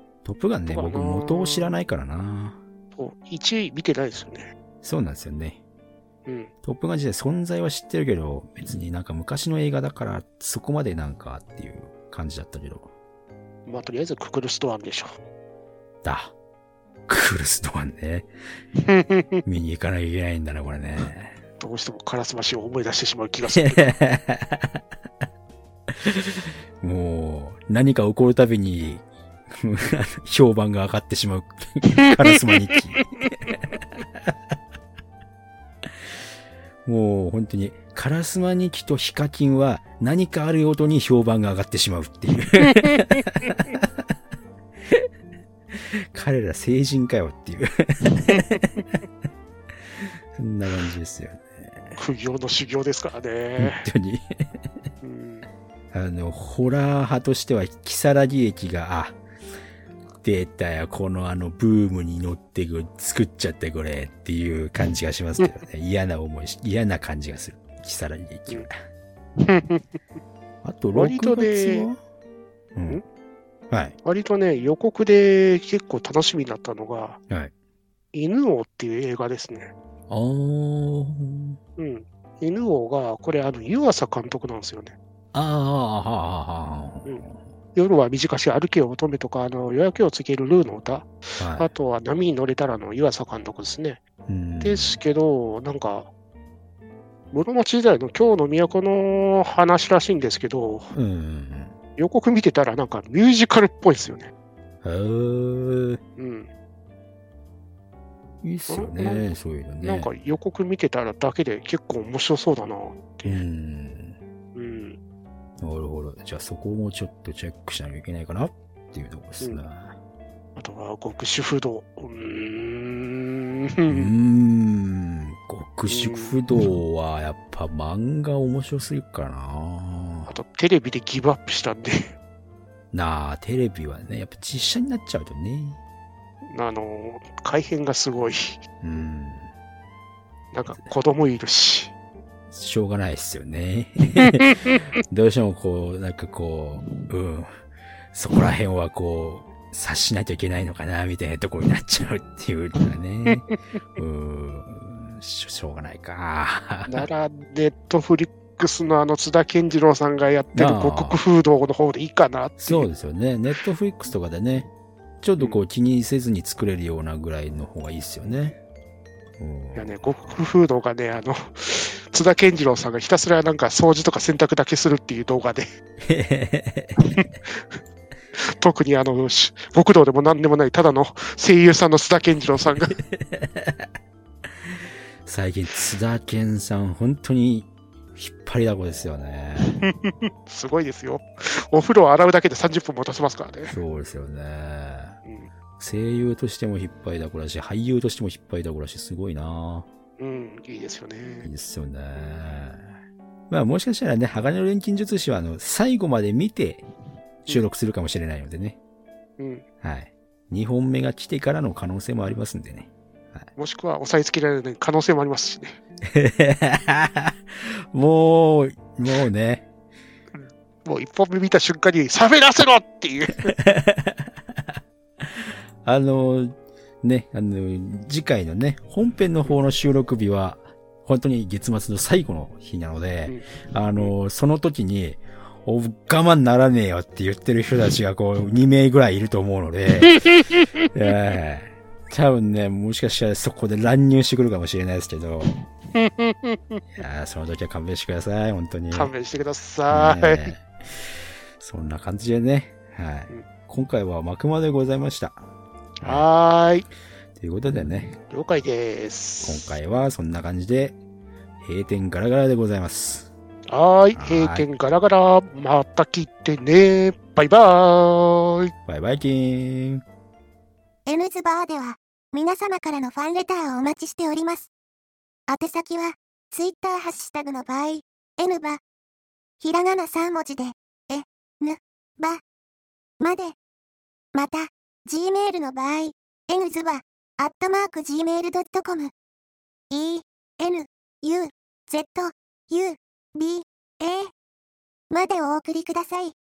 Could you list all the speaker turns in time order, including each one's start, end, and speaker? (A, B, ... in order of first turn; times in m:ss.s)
0:00.2-0:02.6 A
0:00.7-0:01.7 B
0:03.0-0:04.5 B
0:04.8-0:05.6 A
0:06.2-0:06.5 B
0:06.6-0:12.9 A
0:13.6-0:15.2 B
0:16.0-0:16.3 A
0:17.1-0:18.3 A
0:18.8-0:19.4 B
0:19.4-0:21.3 A
0:21.6-0:23.9 B
0:23.6-0:24.7 A
0:26.0-0:29.0 A
0:29.6-0:33.6 A
0:36.8-0:43.9 A
0:45.7-0:48.8 A
0:50.4-0:52.0 A
0:52.0-0:53.9 B
0:53.6-0:54.4 A
0:55.0-0:55.5 B
0:55.9-0:59.2 A
1:00.2-1:08.7 A
1:09.4-1:09.8 B
1:10.6-1:12.0 A
1:10.9-1:11.9 B
1:12.7-1:13.0 A
1:13.7-1:14.0 A
1:14.0-1:17.2 B
1:18.1-1:19.7 B
1:20.1-1:21.6 A
1:21.8-1:24.9 B
1:25.3-1:27.4 A
1:27.7-1:34.0 B
1:31.4-1:31.7 A
1:34.3-1:35.0 A
1:34.6-1:36.1 B
1:37.3-1:40.9 B
1:40.9-1:41.7 A
1:42.0-1:44.3 B
1:44.8-1:46.0 A
1:46.2-1:46.5 B
1:48.4-1:50.1 A
1:48.7-1:49.2 B
1:49.8-1:53.4 B
1:53.2-1:54.2 A
1:54.5-1:55.0 B
1:55.6-1:59.9 A
2:00.6-2:04.1 B
2:03.9-2:10.3 A
2:05.9-2:06.4 B
2:10.3-2:12.1 B
2:12.9-2:15.8 A
2:16.4-2:18.6 B
2:18.8-2:19.5 A
2:20.5-2:21.9 B
2:22.5-2:27.5 A
2:28.1-2:37.0 A
2:36.9-2:42.9 B
2:40.5-2:41.2 A
2:42.6-2:44.7 A
2:45.2-2:48.6 A
2:49.4-2:50.3 A
2:49.8-2:55.7 B
2:56.0-2:57.0 A
2:57.0-2:57.8 B
2:58.5-3:03.0 B
3:03.1-3:03.9 A
3:05.2-3:09.8 A
3:09.8-3:13.8 B
3:13.7-3:15.2 A
3:15.8-3:19.9 A
3:20.2-3:21.5 B
3:21.4-3:22.9 A
3:23.5-3:26.8 A
3:27.5-3:28.8 A
3:29.4-3:29.6 B
3:29.8-3:33.5 A
3:33.6-3:35.8 B
3:36.1-3:39.6 A
3:40.3-3:43.5 B
3:43.5-3:44.3 A
3:45.2-4:00.3 A
3:53.3-3:54.1 B
4:00.2-4:00.6 B
4:00.9-4:05.6 A
4:05.9-4:06.8 B
4:07.0-4:09.1 A
4:08.9-4:10.5 B
4:09.9-4:10.6 A
4:11.6-4:15.4 A
4:16.0-4:16.9 B
4:17.4-4:18.2 A
4:18.3-4:19.7 B
4:19.4-4:21.0 A
4:21.6-4:23.3 A
4:23.7-4:28.7 B
4:24.1-4:24.7 A
4:28.9-4:30.0 A
4:31.1-4:34.7 C
4:35.5-4:38.8 C
4:39.6-4:42.4 C
4:43.2-4:43.5 C
4:44.3-4:49.1 C
4:49.9-4:54.3 C
4:55.1-4:56.3 C